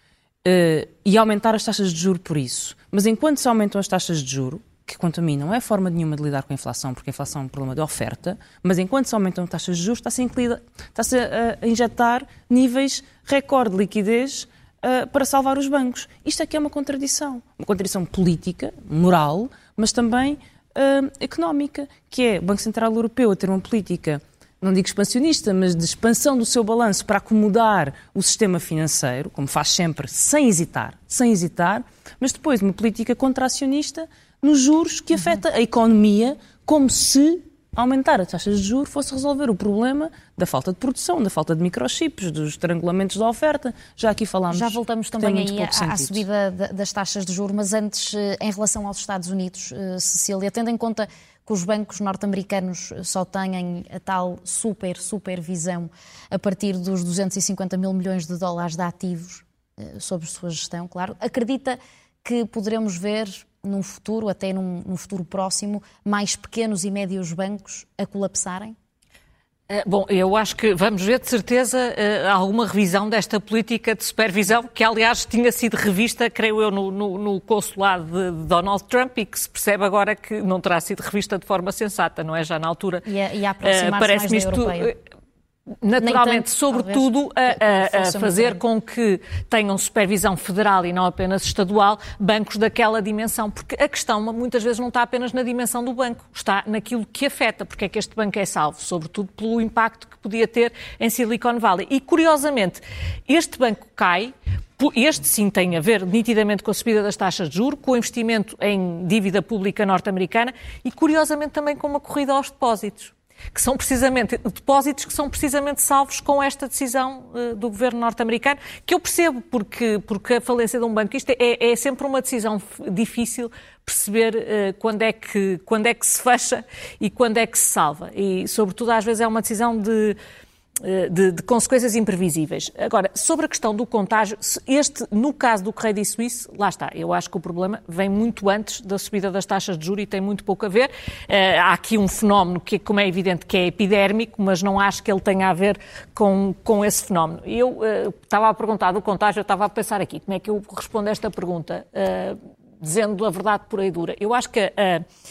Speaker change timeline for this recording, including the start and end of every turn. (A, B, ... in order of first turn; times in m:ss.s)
0:00.4-0:46.2 A
0:44.5-1:08.8 B
1:09.7-1:23.1 C
1:23.1-1:24.9 B
1:23.6-1:25.0 C
1:25.8-2:10.2 C
1:26.0-1:28.6 B
2:10.8-2:35.0 C